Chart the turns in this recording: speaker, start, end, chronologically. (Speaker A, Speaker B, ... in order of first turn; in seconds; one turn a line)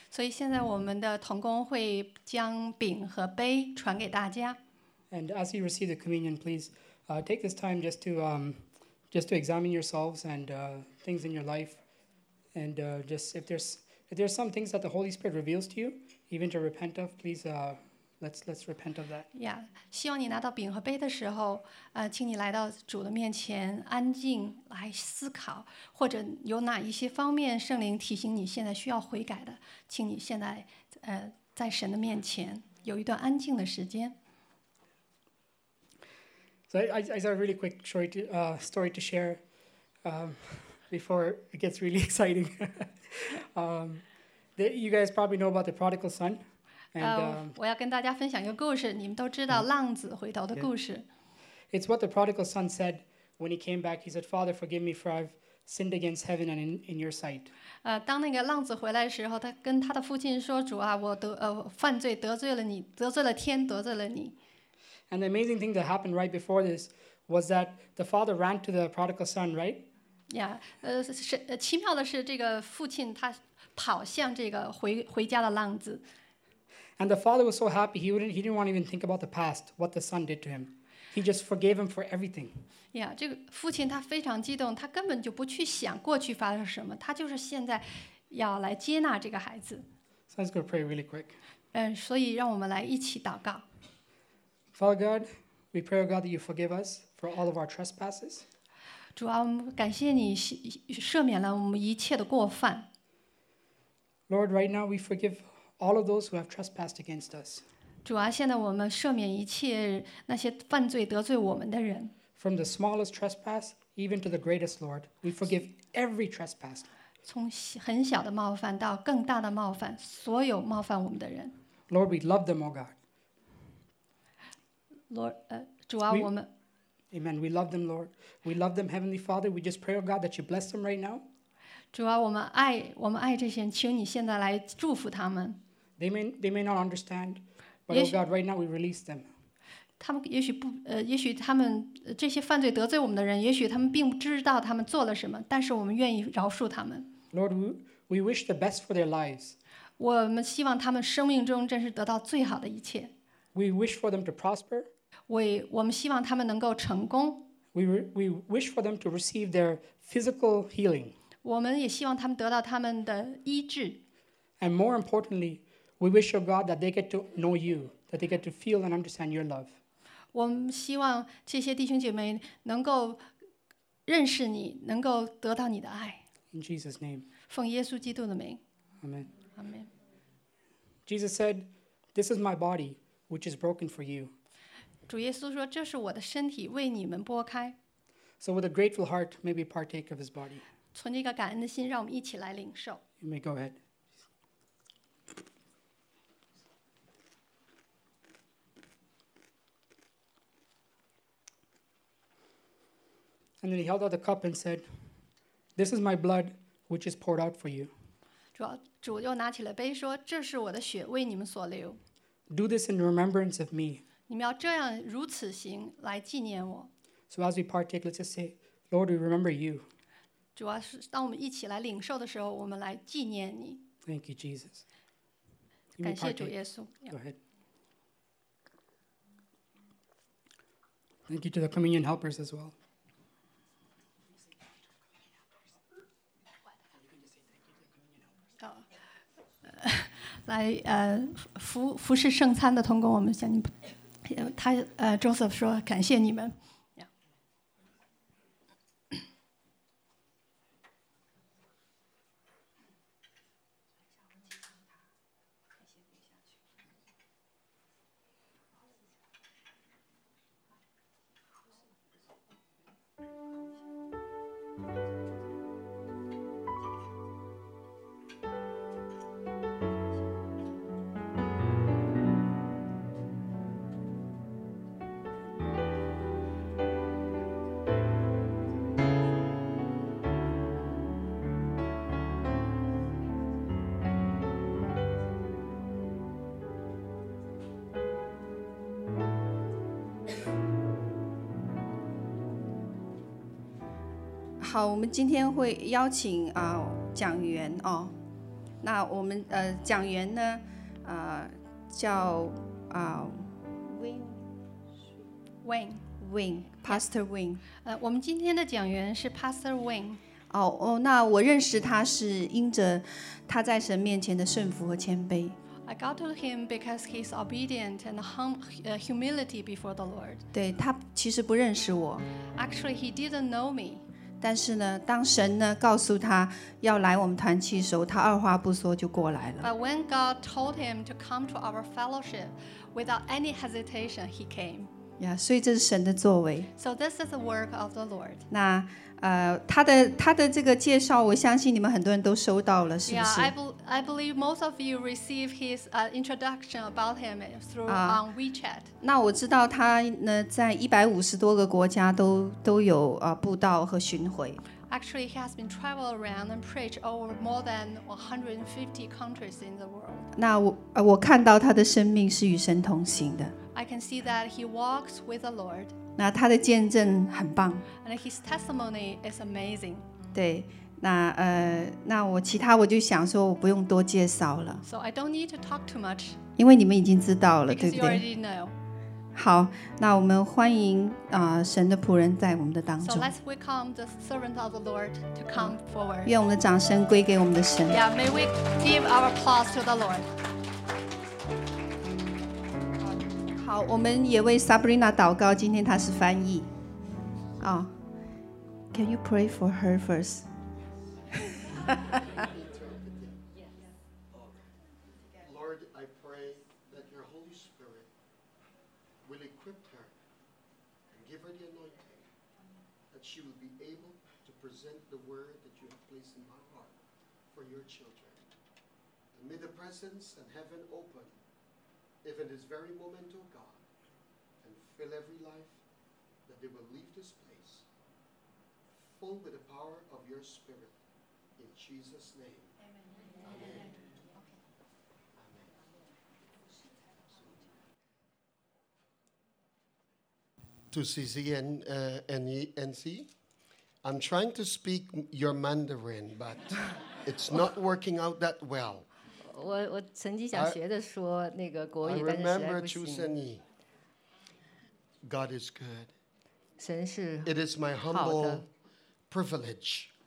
Speaker A: 0.1-4.6
Speaker B: 5.1-11.8
Speaker B: 12.5-19.3
Speaker A: 19.3-34.2
Speaker B: 36.7-39.4
Speaker B: 40.0-44.0
Speaker B: 44.6-46.4
Speaker B: 46.9-47.5
Speaker A: 47.0-51.0
Speaker B: 51.7-57.5
Speaker A: 57.8-64.3
Speaker B: 65.1-69.9
Speaker A: 70.3-76.0
Speaker B: 77.0-82.6
Speaker A: 82.9-89.9
Speaker B: 90.3-91.4
Speaker A: 91.7-93.6
Speaker B: 94.7-98.5
Speaker A: 99.2-102.9
Speaker B: 104.3-107.6
Speaker A: 108.0-112.1
Speaker B: 112.4-116.9
Speaker A: 117.2-121.5
Speaker B: 121.9-122.9
Speaker A: 125.1-126.5
Speaker B: 127.1-131.2
Speaker A: 131.9-135.6
Speaker B: 136.0-139.3
Speaker A: 137.9-138.1
Speaker A: 140.0-147.1
Speaker B: 147.3-149.6
Speaker A: 150.0-153.1
Speaker B: 153.5-154.9
Speaker A: 155.3-157.4
Speaker B: 157.7-161.1
Speaker A: 161.4-164.0
Speaker B: 164.6-169.7
Speaker A: 170.3-173.2
Speaker A: 174.1-176.2
Speaker B: 176.5-177.3
Speaker A: 177.5-178.6
Speaker B: 179.0-179.3
Speaker A: 179.5-179.9
Speaker B: 181.1-184.3
Speaker A: 185.1-187.8
Speaker B: 188.4-190.6
Speaker A: 190.9-193.0
Speaker B: 193.2-193.8
Speaker B: 203.6-204.8
Speaker B: 205.8-207.9
Speaker A: 208.5-212.0
Speaker B: 212.5-214.0
Speaker A: 214.3-216.9
Speaker B: 217.3-219.9
Speaker A: 220.6-223.8
Speaker B: 224.1-224.8
Speaker B: 226.0-226.6
Speaker A: 226.0-227.1
Speaker B: 227.1-227.4
Speaker B: 231.3-232.7
Speaker A: 239.7-247.1
Speaker C: 294.6-298.1
Speaker C: 298.8-304.4
Speaker A: 305.6-306.0
Speaker C: 306.2-307.6
Speaker A: 307.8-310.2
Speaker C: 310.5-315.5
Speaker A: 315.9-320.4
Speaker C: 320.5-322.2
Speaker A: 322.5-324.0
Speaker C: 324.4-329.6
Speaker A: 329.6-334.9
Speaker C: 335.2-336.7
Speaker A: 336.8-338.4
Speaker C: 338.5-343.5
Speaker A: 343.1-348.9
Speaker C: 347.9-348.2
Speaker C: 349.0-354.6
Speaker A: 354.9-360.3
Speaker C: 360.4-363.5
Speaker A: 363.7-365.9
Speaker C: 366.2-367.8
Speaker A: 368.0-370.1
Speaker C: 370.4-374.8
Speaker A: 374.8-376.4
Speaker C: 376.6-378.2
Speaker A: 377.7-378.7
Speaker C: 379.4-383.3
Speaker A: 383.0-386.4
Speaker C: 386.3-387.9
Speaker A: 387.9-390.3
Speaker C: 393.6-396.6
Speaker C: 397.6-397.9
Speaker C: 398.9-400.4
Speaker D: 402.3-403.4
Speaker D: 405.4-408.1
Speaker D: 409.2-410.1
Speaker D: 411.1-412.2
Speaker D: 413.1-417.0
Speaker D: 417.5-418.4
Speaker D: 419.3-421.3
Speaker D: 422.2-423.8
Speaker D: 424.6-425.8
Speaker D: 426.5-427.9
Speaker D: 428.9-430.9
Speaker D: 431.6-432.7
Speaker D: 433.4-433.9
Speaker D: 435.4-435.7
Speaker D: 440.9-443.3
Speaker D: 444.0-449.1
Speaker E: 449.4-453.3
Speaker D: 450.5-450.8
Speaker D: 452.0-453.6
Speaker D: 455.2-456.1
Speaker E: 456.8-457.6
Speaker D: 457.4-458.6
Speaker E: 458.1-458.6
Speaker D: 459.3-460.1